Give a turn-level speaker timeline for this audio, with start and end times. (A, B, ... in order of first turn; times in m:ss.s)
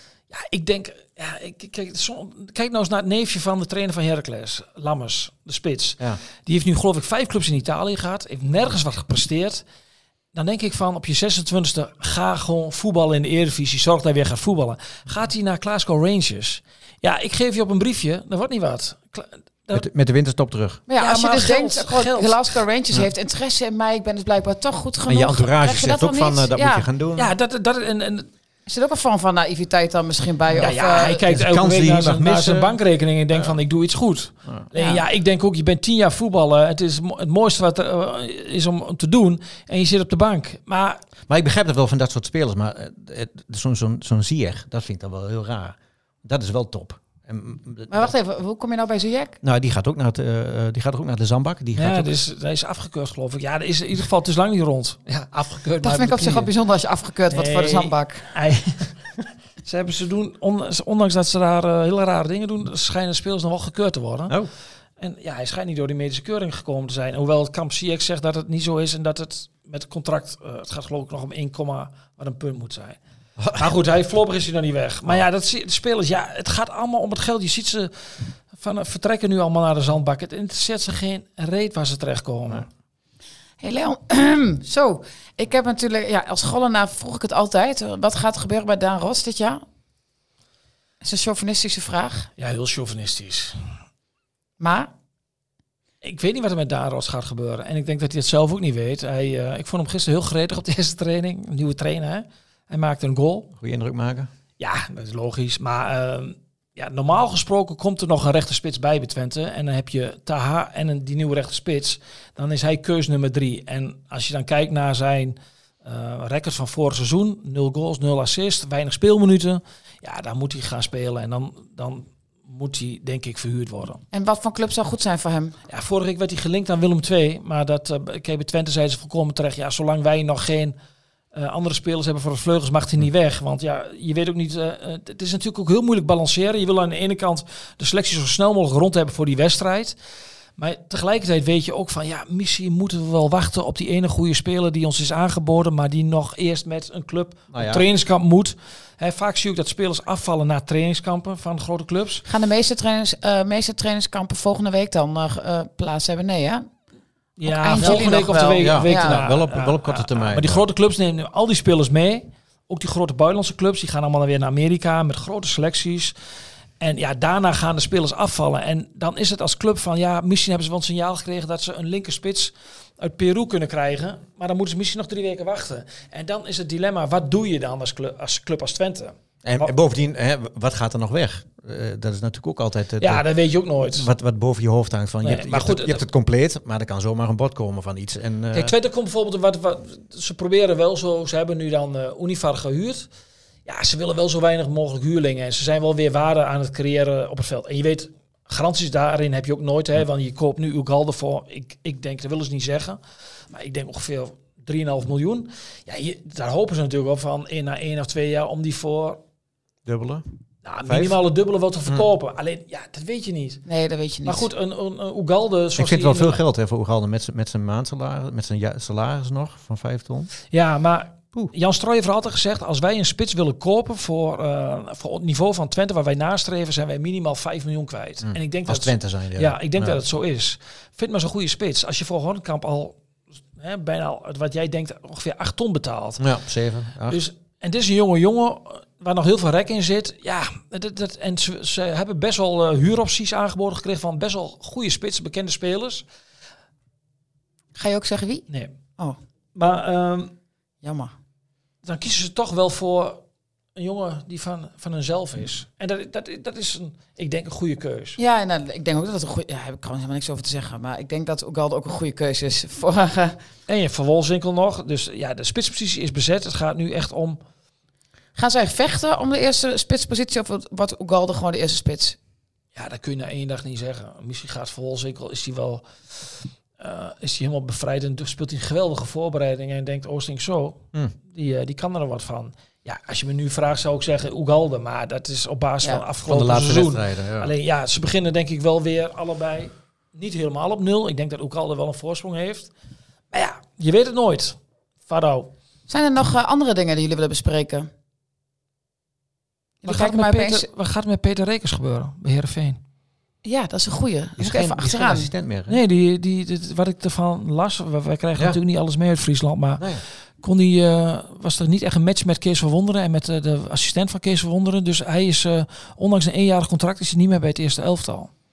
0:00.3-0:09.6 A
0:10.3-0:19.8 A
0:19.7-0:20.8 B
0:20.9-0:26.9 C
0:21.0-0:22.5 A
0:25.1-0:27.3 B
0:27.2-0:28.3 A
0:28.7-0:31.2 C
0:30.6-0:41.0 A
0:31.2-0:32.7 B
0:34.8-0:35.0 C
0:41.3-0:48.1 B
0:47.9-0:49.4 C
0:49.4-0:52.1 B
0:51.8-0:56.5 A
0:55.8-0:58.3 C
0:57.3-0:58.9 A
0:59.6-1:04.4 A
1:05.0-1:13.0 A
1:13.4-1:13.7 B
1:13.5-1:17.9 A
1:18.5-1:22.7 A
1:23.6-1:29.6 C
1:31.0-1:32.3 C
1:32.4-1:33.7 A
1:34.6-1:34.9 C
1:36.0-1:43.5 A
1:43.6-1:44.3 B
1:44.6-2:04.0 A
2:04.1-2:05.6 C
2:05.7-2:10.8 A
2:11.3-2:20.0 A
2:20.6-2:32.2 A
2:27.5-2:27.9 B
2:32.3-2:36.7 C
2:37.4-2:46.1 A
2:37.5-2:39.2 C
2:37.8-2:40.6 B
2:46.8-2:59.7 A
2:59.4-3:03.2 B
3:03.0-3:04.1 A
3:03.8-3:08.7 B
3:05.2-3:06.0 A
3:08.5-3:13.1 A
3:13.7-3:23.0 A
3:23.5-3:29.2 A
3:29.8-3:30.2 B
3:30.6-3:33.6 A
3:30.9-3:31.2 B
3:33.7-3:34.5 C
3:34.3-3:36.4 A
3:35.8-3:40.3 B
3:40.5-3:53.0 A
3:48.2-3:50.0 B
3:53.6-3:56.2 A
3:56.2-3:57.2 B
3:57.1-4:06.0 A
4:07.8-4:08.4 C
4:08.5-4:08.8 A
4:09.6-4:10.3 A
4:10.8-4:11.1 C
4:11.8-4:13.2 A
4:13.8-4:18.2 A
4:18.2-4:23.4 C
4:23.7-4:27.4 A
4:28.4-4:32.2 C
4:32.8-4:35.9 A
4:36.8-4:52.7 A
4:46.2-4:47.5 B
4:53.3-4:55.5 A
4:55.9-4:57.9 C
4:59.8-5:00.7 C
4:59.8-5:02.8 A
5:03.4-5:05.3 C
5:04.4-5:05.8 B
5:05.7-5:18.3 A
5:09.8-5:10.0 B